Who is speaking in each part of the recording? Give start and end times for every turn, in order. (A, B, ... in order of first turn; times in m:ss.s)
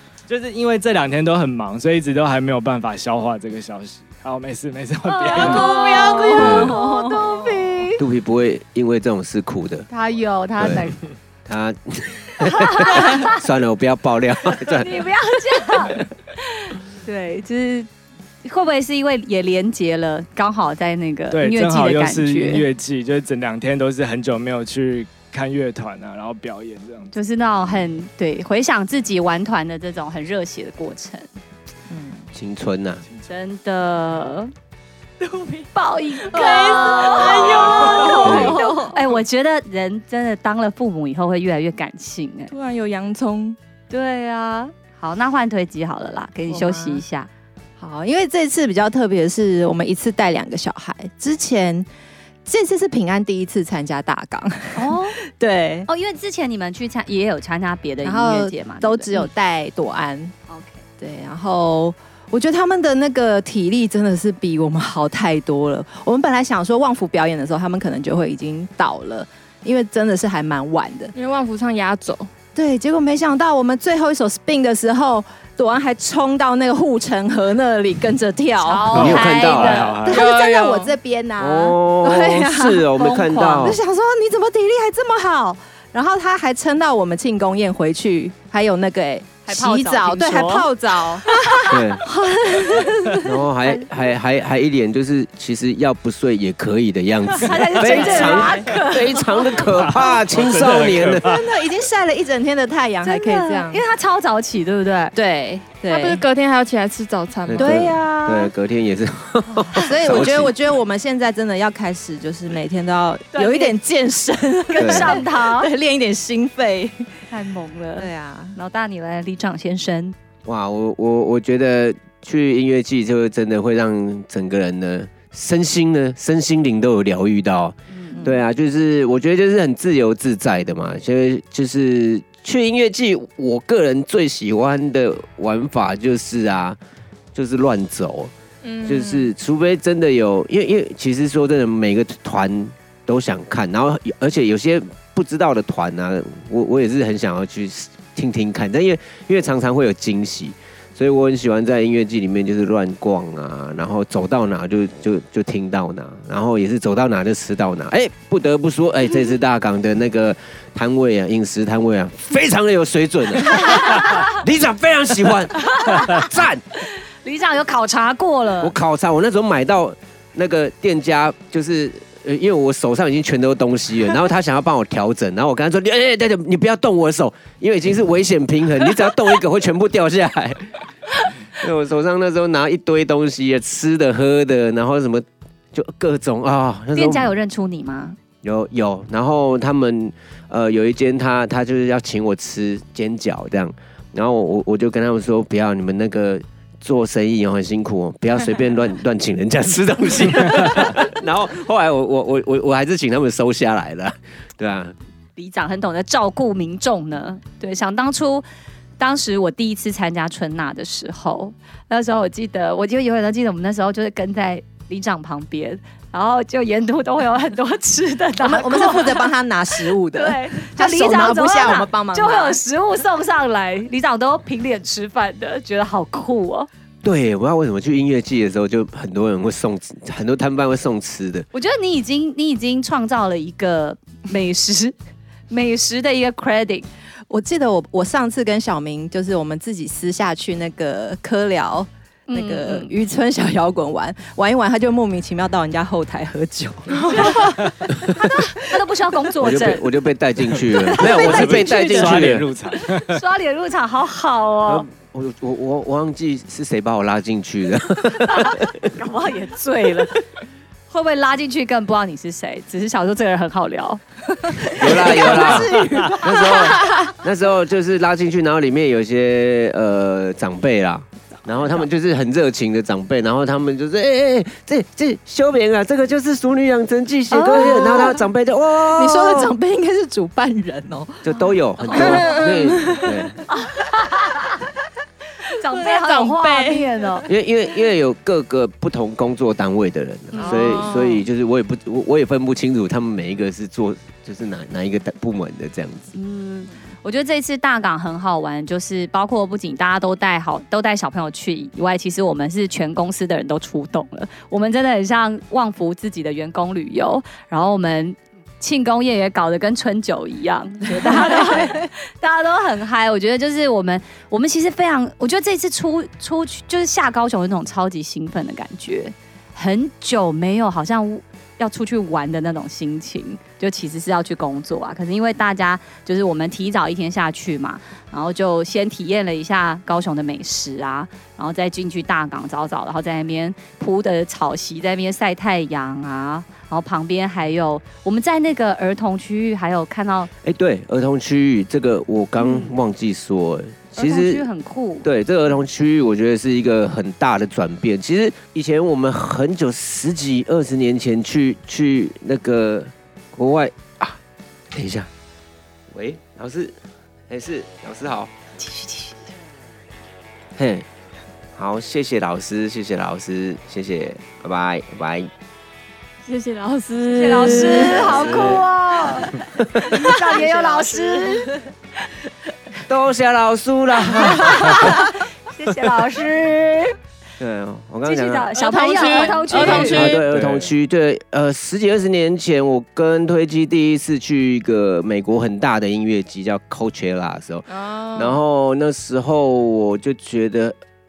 0:00.3-0:05.6 A
0:05.0-0:08.0 B
0:05.4-0:07.6 C
0:05.4-0:06.8 D
0:06.3-0:06.8 E
0:08.0-0:09.9 E
0:09.9-0:11.0 B
0:10.6-0:10.9 E
0:11.4-0:15.1 E
0:12.4-0:13.4 B
0:14.6-0:17.9 B
0:18.4-0:22.6 B
0:21.3-0:27.1 A
0:27.1-0:31.3 B
0:31.9-0:32.3 C
0:32.3-0:33.0 E
0:33.3-0:34.5 B
0:35.2-0:35.7 D
0:35.7-0:42.5 B
0:36.2-0:39.0 D
0:36.9-0:38.9 C
0:38.2-0:38.6 E
0:42.5-0:43.6 D
0:43.9-0:47.3 B
0:46.5-0:46.9 C
0:47.8-0:51.9 C
0:52.4-0:55.9 C
0:54.7-0:55.2 B
0:55.9-0:59.3 B
0:58.0-1:00.3 C
1:00.5-1:00.8 B
1:01.0-1:11.1 C
1:11.1-1:12.3 D
1:12.5-1:19.3 C
1:18.6-1:20.0 B
1:18.9-1:19.9 E
1:18.9-1:20.2 A
1:20.0-1:33.3 C
1:20.1-1:21.0 D
1:21.4-1:23.8 E
1:29.4-1:30.7 B
1:31.7-1:32.0 E
1:33.2-1:41.3 E
1:37.4-1:39.6 B
1:37.5-1:38.8 C
1:39.6-1:41.5 A
1:41.2-1:43.8 C
1:43.0-1:45.2 B
1:45.2-1:46.2 C
1:45.8-1:47.9 D
1:47.5-1:50.5 E
1:47.6-1:48.5 B
1:47.7-1:48.0 C
1:49.7-1:50.3 B
1:49.8-1:57.1 C
1:53.3-1:53.7 B
1:54.7-1:55.7 B
1:54.8-1:55.2 E
1:57.3-2:00.1 B
1:58.0-1:58.6 C
2:00.4-2:16.8 E
2:07.9-2:08.2 B
2:08.1-2:08.4 C
2:17.3-2:18.3 E
2:18.6-2:19.3 D
2:18.8-2:46.6 E
2:43.7-2:44.2 B
2:45.7-2:46.2 B
2:47.2-2:48.7 B
2:48.6-3:00.7 E
3:01.5-3:07.3 E
3:06.9-3:08.2 B
3:08.4-3:24.9 E
3:25.4-3:28.4 B
3:29.0-3:46.7 B
3:38.4-3:42.6 C
3:47.0-3:51.4 E
3:51.5-3:54.9 B
3:55.5-3:56.9 B
3:57.3-4:08.6 C
4:02.3-4:02.9 B
4:07.0-4:07.6 B
4:08.5-4:09.9 B
4:09.4-4:12.5 E
4:10.8-4:14.8 B
4:11.0-4:13.2 A
4:11.2-4:11.4 C
4:14.7-4:18.9 E
4:18.2-4:20.2 B
4:20.9-4:26.6 B
4:24.7-4:26.8 C
4:24.8-4:39.6 E
4:37.3-4:38.2 C
4:38.8-4:41.3 C
4:41.2-4:43.4 E
4:41.9-4:42.3 C
4:41.9-4:43.2 D
4:41.9-4:42.2 B
4:43.5-4:44.6 B
4:45.5-4:47.3 B
4:45.7-4:46.9 D
4:47.3-4:56.1 E
4:50.3-4:50.9 B
4:50.4-4:51.2 D
4:56.1-5:40.3 B
5:40.4-5:44.4 E
5:44.0-5:45.1 B
5:45.0-5:54.2 E
5:54.7-5:55.1 E
5:55.9-5:56.7 E
5:57.3-5:58.3 E
5:58.6-5:59.1 B
6:00.6-6:00.9 E
6:01.6-6:05.3 E
6:06.2-6:08.4 D
6:07.1-6:11.5 B
6:07.7-6:08.6 E
6:09.6-6:10.0 E
6:10.3-6:10.9 C
6:12.9-6:15.0 E
6:14.4-6:16.9 B
6:17.4-6:18.5 E
6:18.0-6:20.2 B
6:18.6-6:20.2 D
6:18.8-6:19.4 C
6:19.5-6:30.8 E
6:20.1-6:20.7 A
6:27.7-6:28.4 D